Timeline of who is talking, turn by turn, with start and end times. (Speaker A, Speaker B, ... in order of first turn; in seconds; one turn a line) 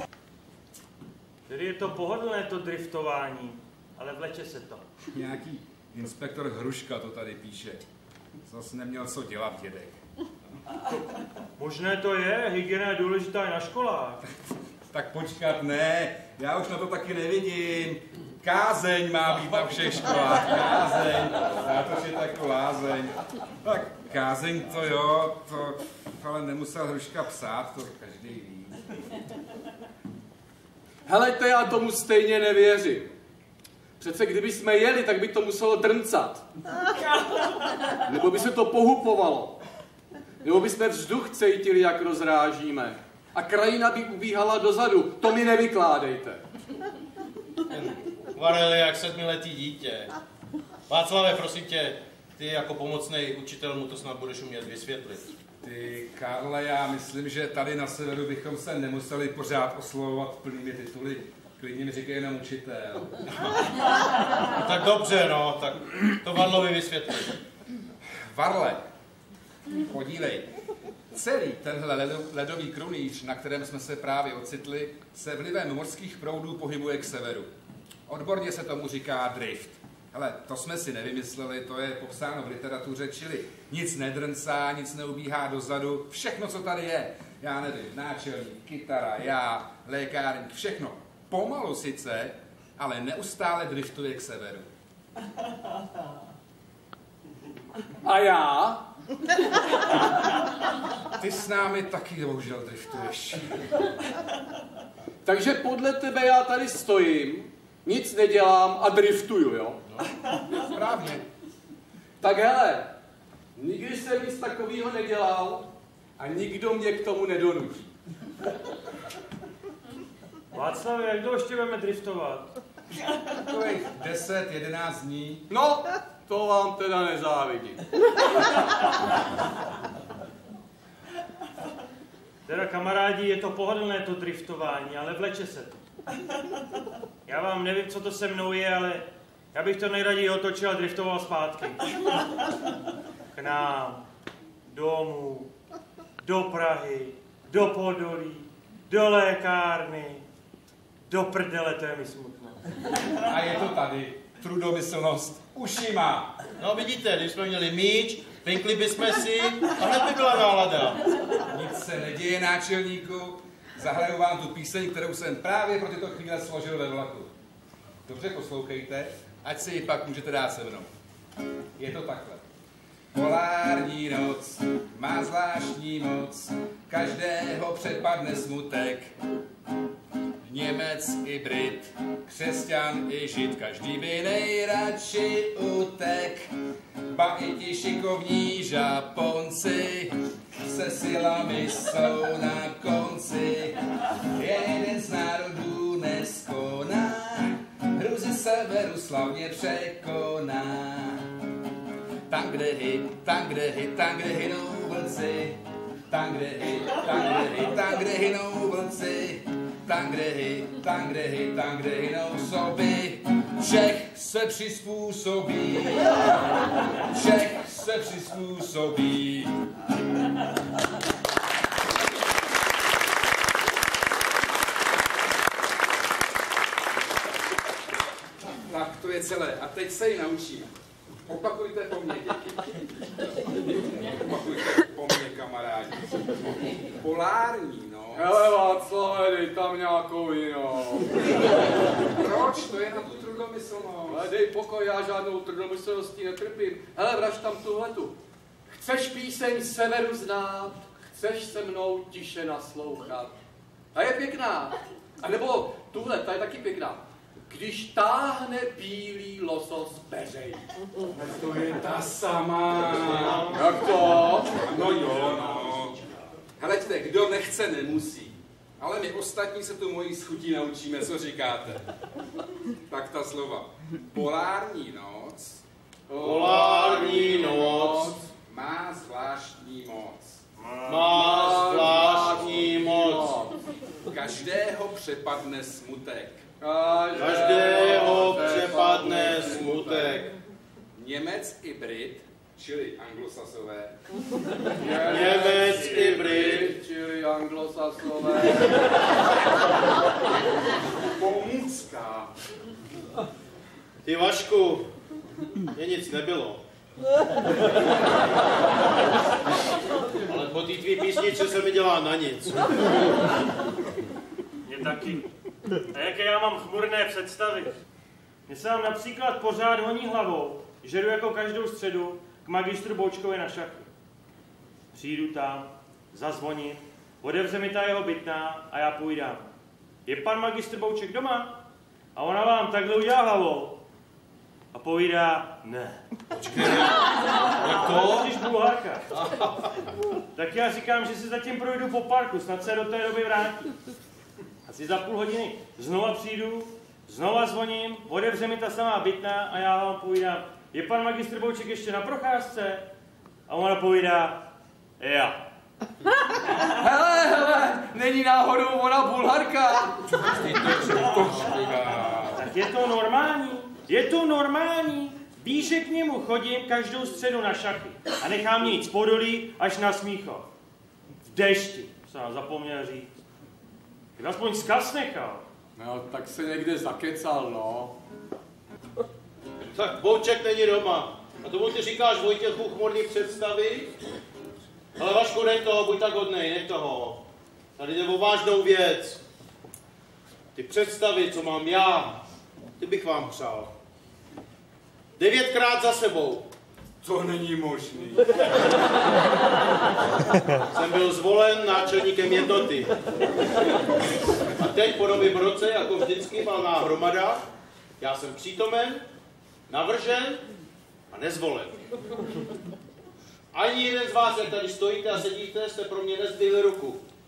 Speaker A: 1.5-4.9
Speaker B: 5.1-7.8
Speaker B: 8.5-10.0
Speaker A: 11.6-14.2
Speaker B: 14.9-28.8
Speaker C: 31.1-33.1
Speaker C: 34.0-36.5
Speaker C: 38.0-39.6
Speaker C: 40.4-46.4
Speaker D: 47.7-50.1
Speaker D: 50.9-55.3
Speaker B: 55.6-63.6
Speaker D: 64.6-67.4
Speaker B: 68.3-68.8
Speaker B: 69.8-70.5
Speaker B: 71.1-77.5
Speaker B: 78.1-94.7
Speaker C: 98.0-98.8
Speaker B: 101.2-103.6
Speaker C: 105.2-109.8
Speaker B: 110.7-111.2
Speaker C: 112.2-112.9
Speaker C: 113.6-117.9
Speaker A: 120.5-122.5
Speaker B: 123.4-125.4
Speaker C: 125.5-127.9
Speaker A: 132.5-135.8
Speaker A: 137.3-141.8
Speaker A: 143.3-144.0
Speaker A: 144.7-145.5
Speaker A: 146.2-150.2
Speaker A: 151.1-152.6
Speaker B: 153.2-156.3
Speaker D: 156.6-161.0
Speaker B: 161.5-167.3
Speaker B: 168.1-170.9
Speaker B: 171.8-172.4
Speaker B: 173.1-179.1
Speaker B: 180.4-186.5
Speaker B: 187.1-193.8
Speaker B: 194.3-201.2
Speaker B: 202.3-216.3
Speaker B: 217.1-219.5
Speaker B: 228.6-230.7
Speaker B: 231.3-232.8
Speaker B: 233.5-238.6
Speaker C: 238.2-241.4
Speaker B: 242.2-244.3
Speaker C: 244.1-248.2
Speaker C: 248.7-253.3
Speaker C: 253.9-260.6
Speaker B: 261.1-263.8
Speaker D: 263.3-264.2
Speaker C: 263.5-264.6
Speaker B: 264.4-266.0
Speaker D: 264.9-266.1
Speaker B: 266.6-271.8
Speaker B: 272.9-275.6
Speaker C: 276.1-278.2
Speaker D: 276.2-278.1
Speaker B: 278.5-280.4
Speaker D: 280.9-283.4
Speaker C: 281.1-283.5
Speaker B: 284.1-286.4
Speaker C: 286.6-289.4
Speaker D: 287.1-290.4
Speaker B: 289.0-290.2
Speaker B: 290.9-293.9
Speaker C: 294.8-298.9
Speaker D: 295.0-296.8
Speaker B: 301.2-302.3
Speaker D: 304.0-304.9
Speaker D: 305.7-306.6
Speaker D: 310.3-312.7
Speaker A: 314.6-315.3
Speaker A: 315.9-317.8
Speaker A: 318.5-323.9
Speaker A: 324.9-329.5
Speaker A: 330.1-331.6
Speaker A: 332.1-333.8
Speaker A: 334.7-336.0
Speaker D: 336.4-337.0
Speaker D: 337.6-338.4
Speaker A: 337.6-339.0
Speaker D: 339.2-339.5
Speaker A: 340.4-343.7
Speaker A: 344.7-352.9
Speaker A: 353.5-355.4
Speaker C: 356.7-360.2
Speaker B: 360.1-362.5
Speaker A: 362.4-370.5
Speaker A: 371.2-373.1
Speaker A: 374.1-375.5
Speaker C: 375.8-377.9
Speaker D: 379.7-384.0
Speaker D: 385.0-387.2
Speaker D: 387.8-389.2
Speaker D: 390.6-392.2
Speaker D: 392.8-393.7
Speaker D: 395.2-396.5
Speaker B: 397.0-398.7
Speaker D: 400.7-402.9
Speaker D: 404.6-407.4
Speaker D: 408.0-409.1
Speaker D: 409.7-410.4
Speaker D: 411.1-411.9
Speaker D: 413.5-417.0